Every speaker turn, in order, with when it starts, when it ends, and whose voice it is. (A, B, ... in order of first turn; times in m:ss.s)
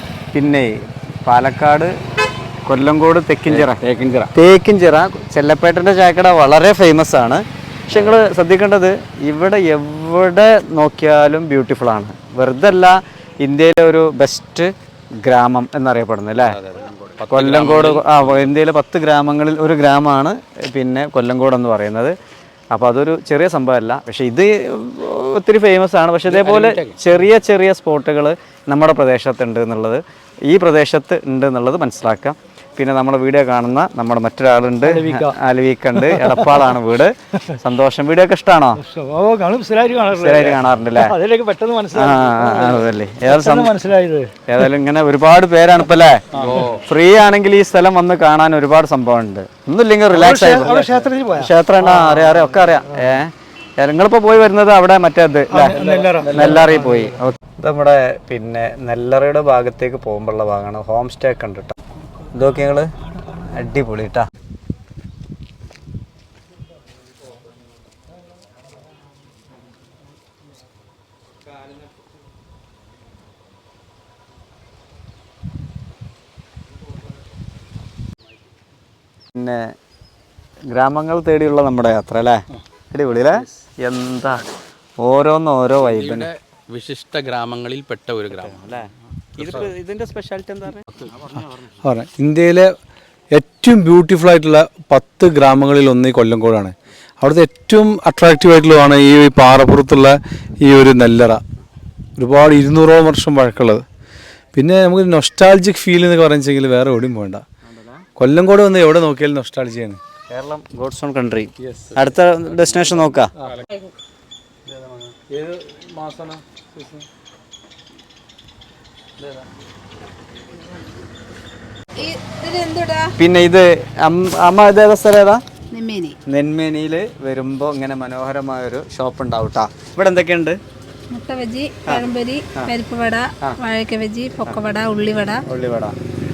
0:00.3-0:01.9 A
0:02.7-0:14.7 A
0:03.5-0:04.3 B
0:15.2-0:16.6 A
0:16.5-0:18.5 B
0:17.3-0:22.1 A
0:22.7-0:38.8 A
0:26.3-0:27.0 B
0:34.8-0:35.4 C
0:36.0-0:36.8 C
0:38.8-0:44.6 C
0:40.1-0:41.2 A
0:41.9-0:43.7 A
0:44.5-1:01.8 A
0:46.3-0:46.6 D
0:46.3-0:46.8 B
0:50.1-0:53.2 C
0:55.5-0:57.2 C
0:55.8-0:56.6 D
1:02.3-1:04.2 A
1:19.3-1:19.7 A
1:20.7-1:24.4 A
1:25.0-1:26.3 A
1:25.8-1:28.8 B
1:28.4-1:30.8 A
1:31.0-1:31.4 B
1:31.8-1:32.7 D
1:33.3-1:41.4 D
1:42.2-1:43.8 D
1:44.5-1:47.4 D
1:47.7-1:48.1 A
1:48.2-1:50.0 D
1:50.3-1:53.3 A
1:51.6-1:52.0 D
1:55.1-1:57.0 D
2:02.0-2:03.1 E
2:03.2-2:05.4 A
2:05.7-2:06.2 E
2:06.3-2:10.6 A
2:11.1-2:15.4 E
2:11.9-2:12.7 A
2:15.4-2:16.0 A